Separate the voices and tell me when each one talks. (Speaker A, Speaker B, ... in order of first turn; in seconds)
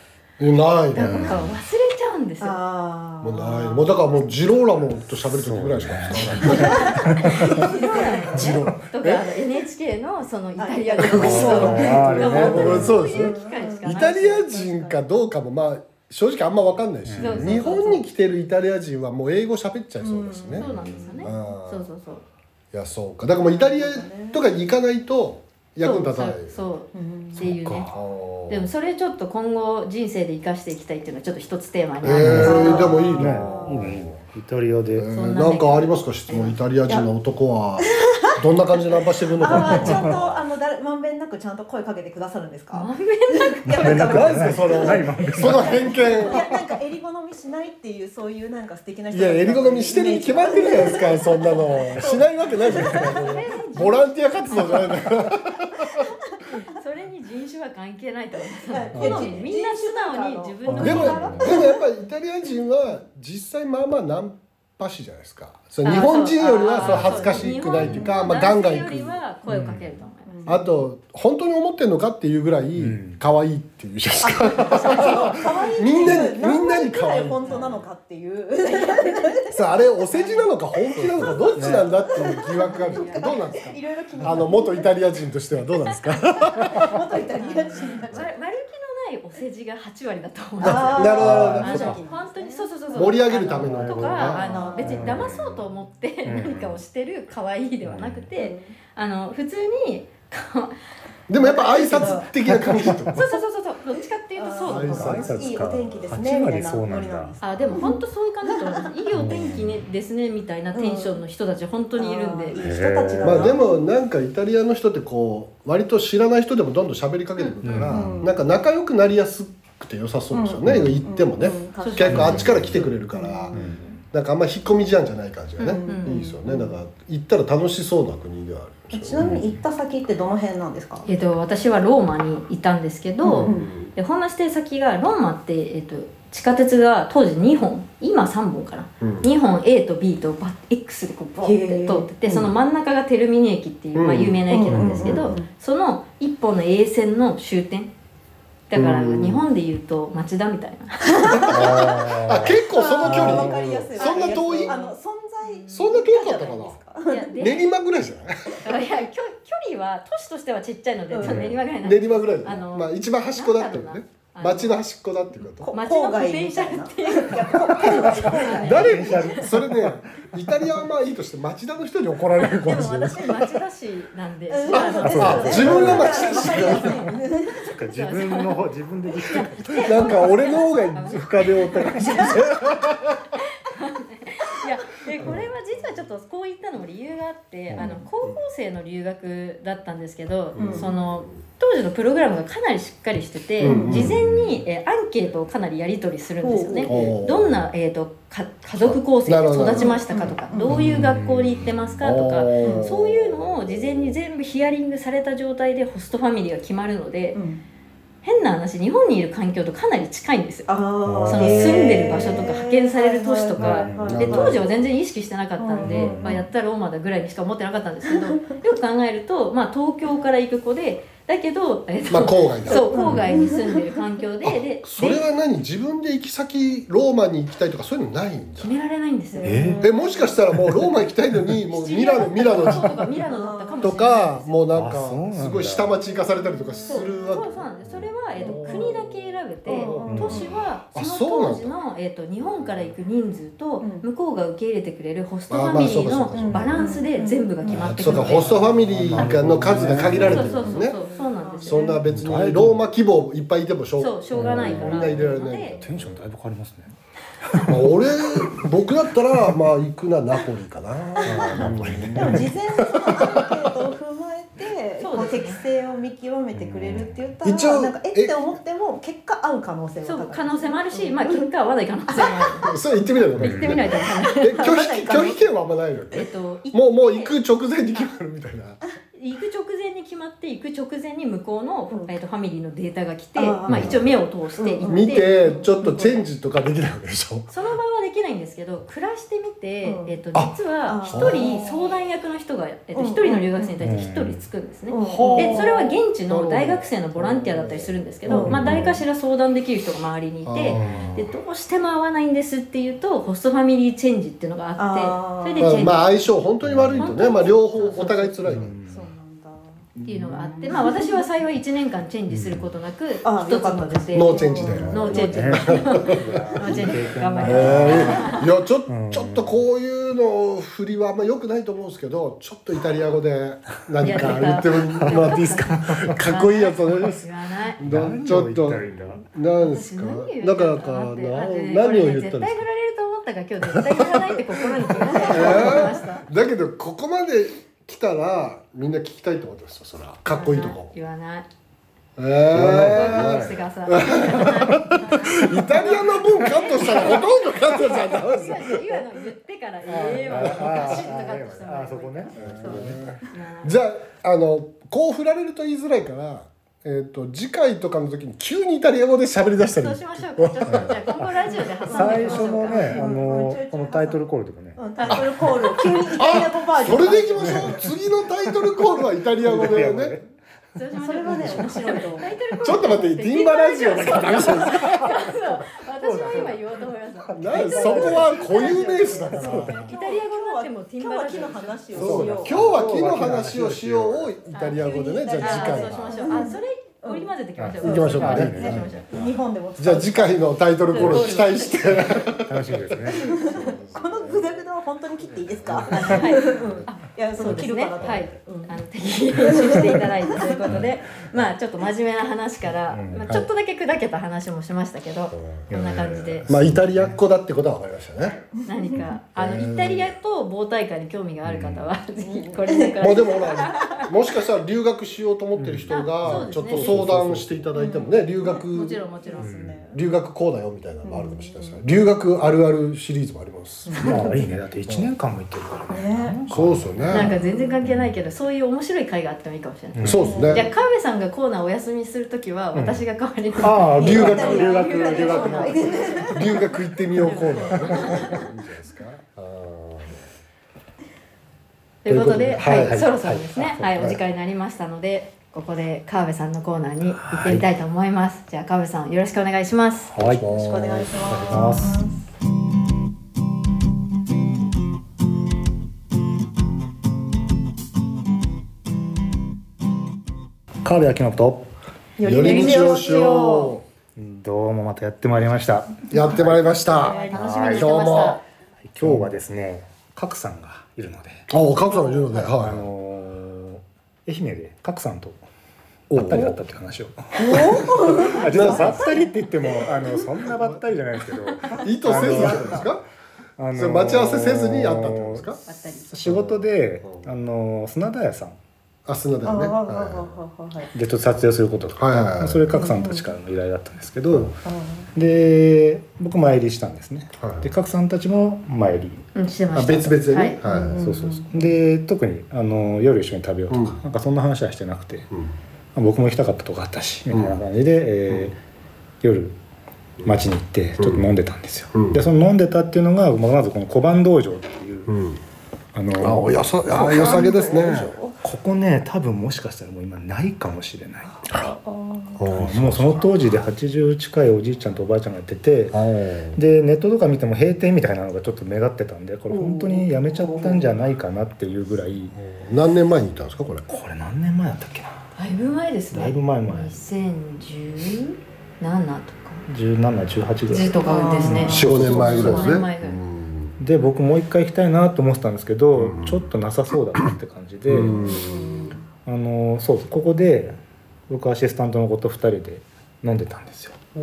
Speaker A: 0.4-1.4, 3.2-7.7, 8.3-9.3, 11.0-21.9, 22.7-26.6, 27.4-28.7, 32.0-34.2, 34.9-40.4, 44.0-46.5, 49.1-56.1, 60.7-69.2, 70.5-77.5, 79.5-87.0, 90.6-92.0, 92.9-94.6, 101.3-103.3, 104.7-105.6, 113.2-129.3, 133.4-133.9, 139.0-139.3, 143.9-145.3, 148.7-149.4, 151.8-154.8, 155.7-156.8, 157.4-158.6, 161.8-165.7, 167.8-173.3, 174.7-177.0, 179.8-181.3, 182.2-183.0, 185.2-185.5, 190.5-191.3, 193.6-194.3, 196.8-197.6, 198.8-200.0, 202.0-204.2, 214.0-214.7, 222.1-223.2, 224.4-228.7, 229.8-233.0, 233.8-239.1, 239.7-241.7, 242.4-242.9, 245.5-246.9, 247.7-251.0, 251.6-256.2, 257.6-263.7, 267.4-268.4, 272.6-278.8, 283.7-284.0, 284.8-287.5, 290.3-291.6, 295.0-299.0, 300.4-301.3, 305.6-308.7, 310.0-310.8, 314.1-316.9, 317.4-332.6, 333.7-340.9, 342.2-349.1, 350.2-351.0, 352.4-361.1, 366.1-370.2, 372.6-375.1, 377.3-379.7, 381.9-386.4, 387.8-388.9, 389.8-394.6, 395.4-396.8, 405.3-405.6, 406.5-408.4, 409.4-410.1, 413.0-419.0, 419.9-424.3, 426.5-427.3, 430.0-430.7, 434.0-434.5, 436.2-440.2, 442.1-443.0, 450.2-451.0, 462.2-463.8, 466.1-468.4, 469.0-469.3, 471.5-472.9, 476.1-476.6, 478.5-479.1, 480.5-480.8, 481.8-483.0, 483.7-485.6, 486.2-487.2, 489.1-490.4, 491.9-492.7, 497.4-497.7, 499.7-501.1, 503.7-504.0, 507.3-507.6, 511.0-511.3, 511.9-512.2, 515.1-515.4, 516.2-518.1, 521.5-521.7, 522.4-523.5, 525.9-526.6, 532.3-533.9, 541.6-543.8, 545.9-546.5, 547.9-549.0
Speaker B: 0.9-2.6, 6.5-14.9, 17.2-18.0, 20.6-22.2, 25.8-27.9, 28.5-33.1, 35.1-36.6, 42.7-44.8, 45.6-46.4, 53.1-55.1, 56.4-61.6, 65.8-70.6, 77.4-77.8, 78.6-79.5, 80.1-80.5, 82.2-83.5, 87.3-100.7, 101.4-102.2, 103.1-105.5, 107.4-112.6, 121.8-122.5, 125.7-126.2, 131.1-147.9, 148.7-152.0, 154.0-157.7, 158.6-164.8, 165.7-169.5, 172.6-176.9, 177.9-182.7, 183.6-207.4, 208.2-210.7, 211.2-225.2, 228.6-229.8, 231.7-234.5, 236.9-248.7, 250.0-252.0, 254.0-255.8, 261.3-261.6, 265.0-265.6, 270.0-272.7, 273.4-275.4, 276.1-277.4, 279.1-286.2, 287.5-306.1, 306.9-308.2, 310.0-318.5, 324.0-327.8, 329.6-336.2, 340.3-341.5, 342.9-353.8, 359.7-363.1, 370.7-382.1, 384.5-389.1, 390.9-392.3, 395.9-406.5, 408.2-414.1, 415.9-417.1, 418.7-419.5, 427.1-436.4, 437.2-438.5, 442.0-450.1, 462.4-463.7, 467.0-468.4, 478.1-479.3, 485.7-486.1, 499.3-500.6, 535.4-539.6, 540.7-543.2
Speaker C: 1.0-1.5, 5.3-7.6, 11.1-13.0, 17.0-17.6, 27.4-27.9, 32.1-35.1, 39.5-40.1, 43.7-45.9, 58.9-59.4, 60.7-61.5, 66.8-67.4, 69.5-69.9, 72.8-73.2, 81.0-81.9, 91.2-92.0, 93.5-95.7, 96.2-96.8, 97.8-98.3, 102.5-103.2, 104.8-107.3, 109.1-109.8, 112.6-113.5, 117.6-118.2, 120.7-121.0, 122.1-122.8, 123.5-124.0, 129.2-129.5, 144.7-145.2, 151.4-153.9, 161.2-161.6, 167.8-170.0, 172.4-173.3, 175.0-177.0, 177.7-180.4, 181.1-183.0, 193.9-194.6, 200.7-201.7, 211.0-212.3, 213.6-214.4, 215.8-216.4, 229.4-229.8, 230.5-230.9, 234.7-235.9, 240.1-240.4, 247.8-250.6, 252.1-252.8, 254.3-258.6, 261.3-262.5, 266.5-267.2, 273.4-273.8, 293.8-294.4, 298.4-298.9, 300.7-301.2, 306.6-307.1, 308.5-309.1, 312.3-312.7, 314.6-319.6, 324.0-326.2, 327.8-329.2, 342.5-343.6, 349.9-353.2, 360.7-361.0, 361.9-365.7, 367.2-367.9, 368.4-370.3, 371.2-372.0, 374.6-379.9, 381.9-384.3, 387.6-389.3, 392.4-393.4, 395.9-396.7, 397.4-398.1, 402.9-403.5, 405.7-407.2, 411.4-411.9, 415.6-417.6, 419.4-419.8, 424.0-427.3, 427.8-428.1, 429.9-430.5, 432.7-433.0, 433.6-435.9, 437.7-438.4, 442.2-444.1, 447.2-447.6, 450.1-452.0, 460.8-461.7, 464.1-468.4, 468.9-471.5, 472.4-475.4, 476.1-482.9, 483.6-488.6, 490.9-494.6, 495.1-499.2, 499.8-505.3, 505.9-508.6, 509.2-509.6, 510.2-515.2, 515.9-516.8, 518.4-521.5, 522.5-532.4, 533.9-535.3, 536.1-537.0, 539.7-542.7, 543.8-548.4, 549.2-550.8, 551.3-554.0
Speaker D: 2.4-4.0, 6.4-8.3, 10.6-13.9, 20.0-21.4, 23.4-24.4, 26.9-27.4, 32.2-34.0, 37.8-38.3, 39.3-53.3, 58.6-61.8, 67.8-68.2, 70.2-70.6, 74.2-79.5, 80.9-85.0, 86.7-88.3, 90.6-93.3, 94.3-95.3, 98.3-98.7, 101.5-102.3, 104.3-108.9, 110.7-111.2, 112.0-113.8, 117.7-118.3, 120.3-123.9, 125.6-126.7, 128.9-131.1, 133.2-133.7, 141.4-142.1, 144.5-145.5, 151.3-157.4, 161.1-161.5, 165.6-169.1, 174.5-177.7, 190.6-190.9, 193.6-194.1, 196.4-197.1, 199.7-200.8, 202.6-202.9, 207.3-207.6, 210.7-214.6, 215.6-216.4, 222.7-223.9, 229.3-230.4, 233.2-233.9, 236.4-237.3, 238.4-239.0, 239.7-240.6, 243.8-244.1, 246.3-248.4, 250.1-252.3, 261.2-261.6, 262.1-271.5, 272.1-272.5, 274.6-275.4, 283.4-284.0, 284.6-286.2, 289.8-290.1, 290.9-291.9, 292.9-293.7, 294.9-295.9, 298.3-298.8, 304.8-305.9, 307.1-309.8, 310.7-311.2, 313.2-315.7, 335.1-335.8, 361.8-364.2, 364.8-367.8, 371.0-372.3, 378.0-382.8, 384.7-387.3, 387.8-391.3, 393.1-398.8, 399.3-400.9, 408.8-409.0, 412.2-413.7, 417.7-420.0, 421.0-421.8, 423.9-424.4, 425.9-426.4, 427.1-427.8, 430.2-430.7, 433.9-436.6, 450.4-452.2, 462.2-463.7, 466.9-467.6, 471.9-472.3, 477.3-479.2, 482.0-482.9, 489.4-490.9, 492.7-493.3, 494.6-495.1, 500.6-501.5, 516.9-518.4, 521.5-522.4, 529.5-530.9, 540.9-542.6, 548.0-549.0